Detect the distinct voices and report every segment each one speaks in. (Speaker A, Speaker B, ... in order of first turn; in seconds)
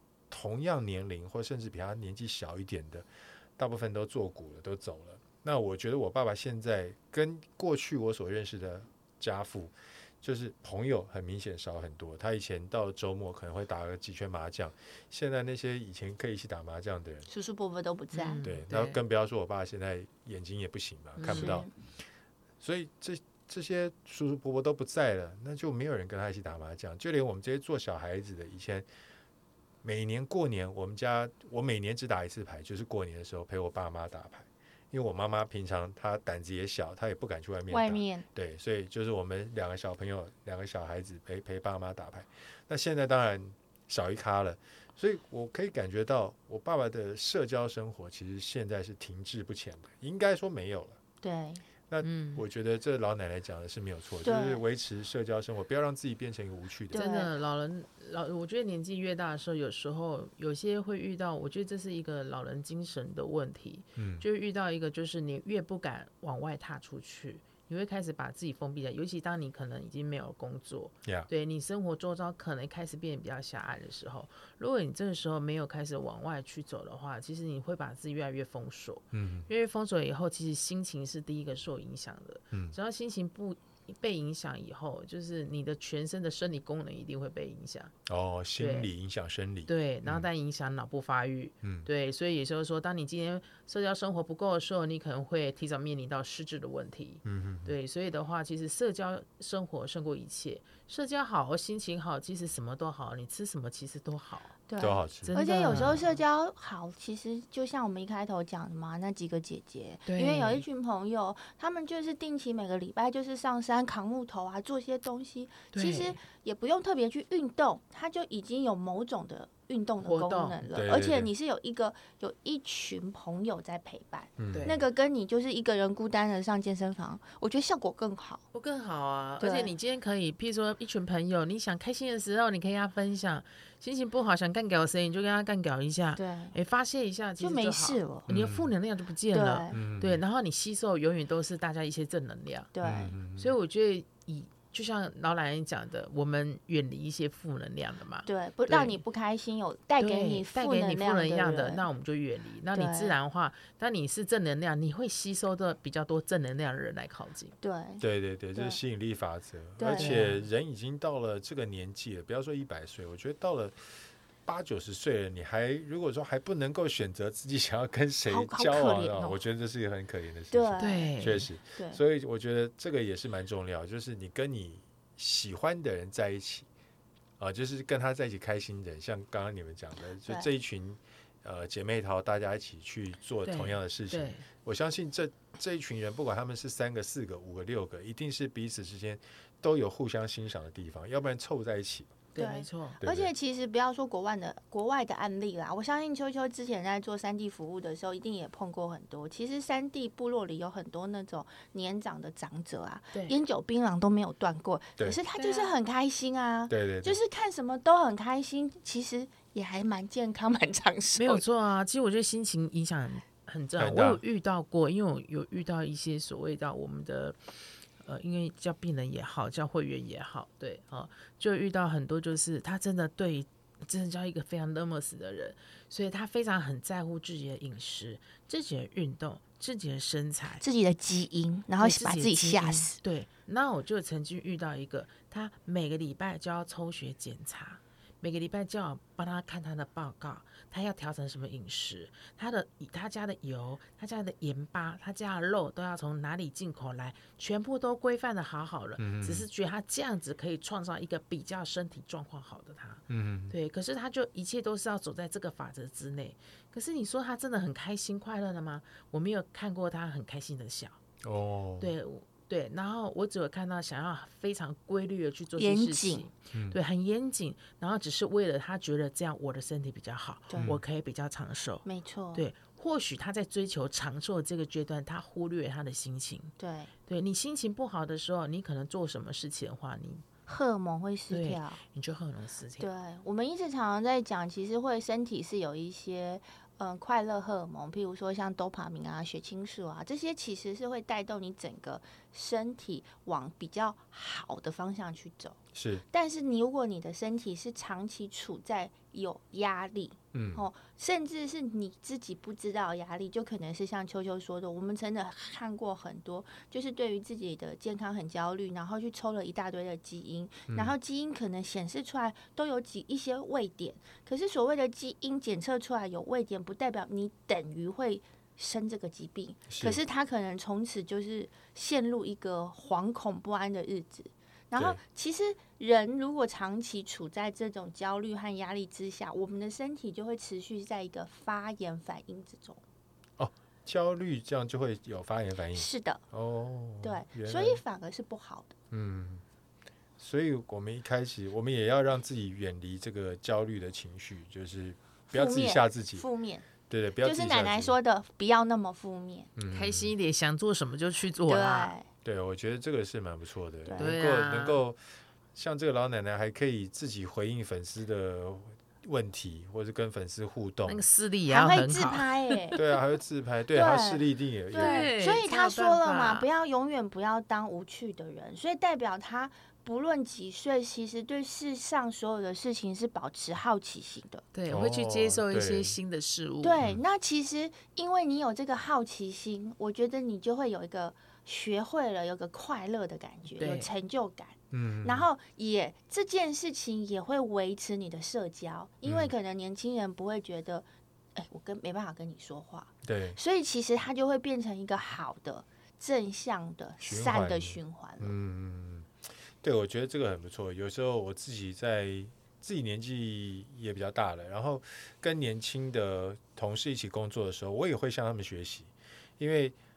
Speaker A: 0.3-17.3, 18.4-21.7, 22.6-28.9, 29.8-51.0, 51.9-57.0, 64.0-64.2, 71.0-71.3, 79.1-79.5, 82.5-82.8, 88.0-90.3, 91.6-91.9, 97.2-97.7, 104.8-106.0, 120.7-121.3, 124.4-124.7, 138.3-138.7, 139.7-140.2, 142.8-143.5, 158.0-163.8, 164.4-176.7, 177.4-192.2, 193.0-193.3, 206.7-207.2, 213.8-214.2, 249.0-249.5, 253.1-253.6, 261.2-261.9, 266.5-266.8, 270.6-270.8, 295.7-296.0, 300.3-300.6, 310.7-310.9, 319.7-320.0, 333.4-337.8, 338.9-339.4, 340.2-346.2, 346.9-347.9, 349.6-350.1, 352.2-355.0, 355.5-361.0, 362.8-365.1, 374.7-376.0, 384.7-385.3, 389.0-389.3, 393.0-393.4, 397.0-409.8
Speaker B: 17.3-18.4, 21.2-21.7, 37.7-38.2, 51.2-51.6, 54.2-54.6, 56.9-57.3, 104.7-128.4, 129.4-129.7, 136.2-136.5, 137.4-138.3, 139.3-139.7, 142.7-143.2, 148.2-151.9, 152.7-153.2, 157.6-158.0, 158.5-158.8, 159.8-160.2, 168.3-169.4, 170.5-171.1, 171.7-172.0, 192.4-211.4, 230.6-233.0, 265.6-266.3, 270.5-270.8, 271.8-272.4, 276.6-276.9, 280.5-281.8, 282.8-295.6, 296.1-332.8, 335.7-336.2, 337.0-338.8, 345.3-346.7, 347.2-349.5, 351.5-352.1, 353.9-354.1, 361.5-362.8, 363.7-374.4, 376.6-398.3
Speaker C: 18.1-19.0, 21.1-21.6, 52.0-52.4, 56.9-87.9, 88.6-88.9, 89.7-104.6, 105.2-106.2, 110.1-110.6, 115.7-116.2, 120.0-120.6, 124.5-124.8, 128.5-142.7, 143.3-149.0, 150.0-157.5, 159.9-160.4, 170.8-171.5, 183.4-184.4, 192.3-193.0, 205.3-205.7, 211.2-217.4, 218.0-230.6, 231.8-261.0, 261.8-276.5, 277.1-280.2, 281.3-282.9, 349.7-351.9, 354.0-354.8, 360.8-362.8, 364.7-366.5, 374.5-376.8, 383.6-383.9